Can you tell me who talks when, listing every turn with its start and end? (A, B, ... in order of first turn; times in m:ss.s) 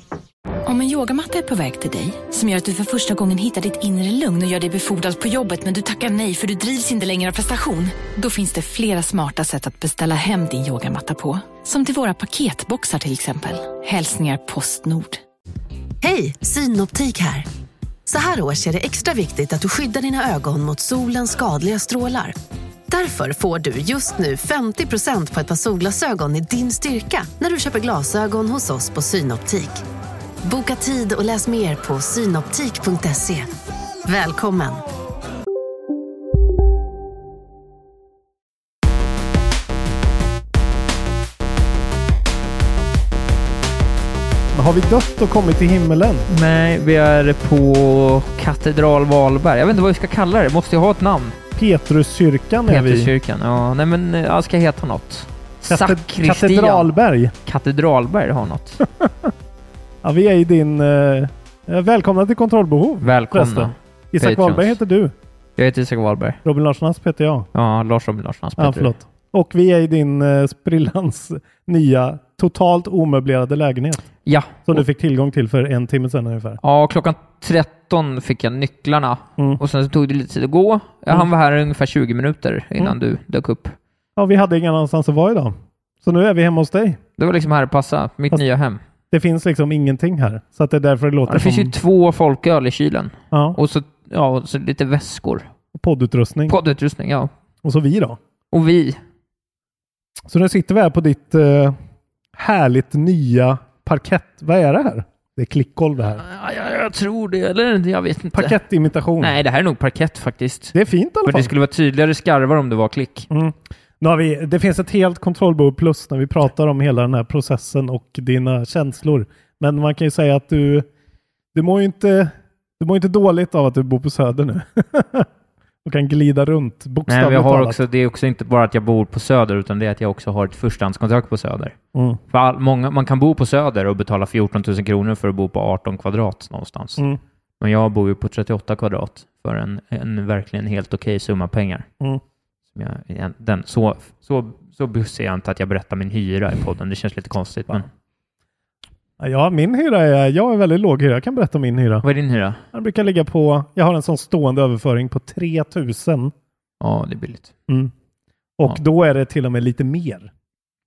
0:00.6-0:15.2 A
0:16.0-0:17.4 B
0:18.1-0:22.3 B
0:22.9-0:29.8 B
0:30.4-0:33.5 B
0:34.0-0:34.8 B
0:44.5-0:46.3 C
0:46.3-0:51.4 D
0:51.6-0:53.1 C
0:52.7-0:56.9 D
0:55.7-0:57.3 C
0:57.4-0:58.8 D
0:58.8-0:59.3 C
1:00.0-1:05.1 C
1:03.0-1:04.8 D
1:05.6-1:06.4 D
1:06.4-1:07.5 C
1:07.5-1:08.9 D
1:08.6-1:14.0 C
1:14.2-1:14.8 D
1:14.6-1:16.6 C
1:16.6-1:23.7 D
1:24.2-1:27.0 C
1:27.2-1:28.8 D
1:29.1-1:31.7 C
1:31.3-1:35.5 D
1:33.3-1:33.6 C
1:35.7-1:36.6 C
1:36.5-1:37.3 D
1:37.6-1:38.2 C
1:38.5-1:39.0 D
1:40.3-1:41.8 C
1:42.3-1:46.2 C
1:46.2-1:48.6 D
1:48.3-1:49.4 C
1:49.2-1:50.7 D
1:50.7-1:51.5 C
1:51.2-1:53.3 D
1:53.3-2:00.9 C
2:01.5-2:05.3 C
2:05.8-2:07.8 C
2:07.1-2:11.7 D
2:11.9-2:12.2 C
2:12.3-2:17.0 D
2:17.6-2:21.9 D
2:22.7-2:27.8 D
2:29.2-2:32.0 C
2:32.0-2:32.6 D
2:32.7-2:36.3 C
2:36.8-2:37.5 D
2:38.6-2:40.3 C